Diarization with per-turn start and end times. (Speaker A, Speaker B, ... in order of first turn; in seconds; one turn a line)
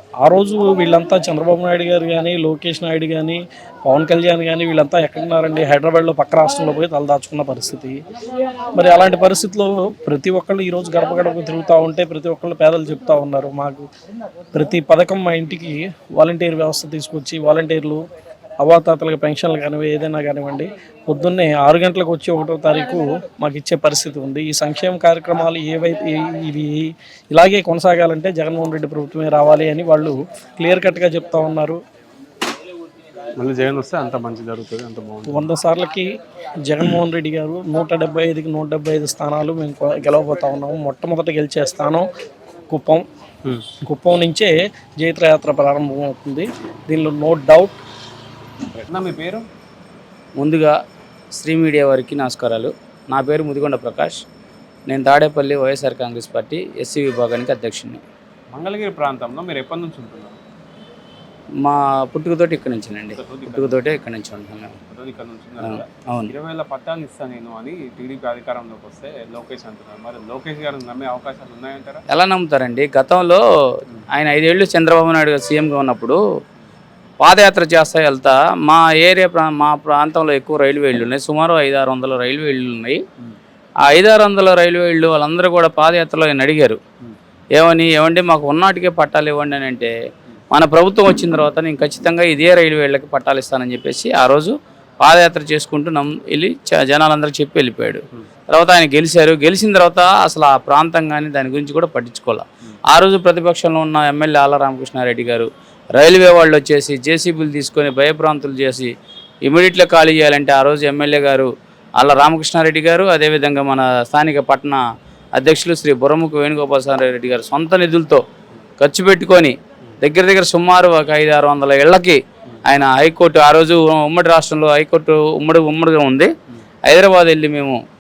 Speaker A: 0.2-8.0
Speaker A: 8.7-13.9
Speaker A: 14.5-18.0
Speaker A: 18.6-31.8
Speaker B: 33.4-35.5
Speaker A: 35.2-36.1
Speaker A: 36.7-42.1
Speaker A: 42.7-43.0
Speaker B: 43.5-43.8
Speaker A: 43.9-47.8
Speaker B: 48.9-49.5
Speaker C: 50.4-50.8
Speaker C: 51.4-54.2
Speaker C: 54.9-58.0
Speaker B: 58.5-60.4
Speaker C: 61.6-64.7
Speaker B: 63.2-63.8
Speaker B: 64.9-72.0
Speaker C: 65.6-66.3
Speaker C: 72.1-73.4
Speaker C: 74.1-76.2
Speaker C: 77.2-83.0
Speaker C: 83.9-86.8
Speaker C: 87.6-89.9
Speaker C: 90.5-108.9
Speaker C: 109.5-114.8
Speaker C: 115.4-118.2
Speaker C: 118.8-126.3
Speaker C: 126.9-127.8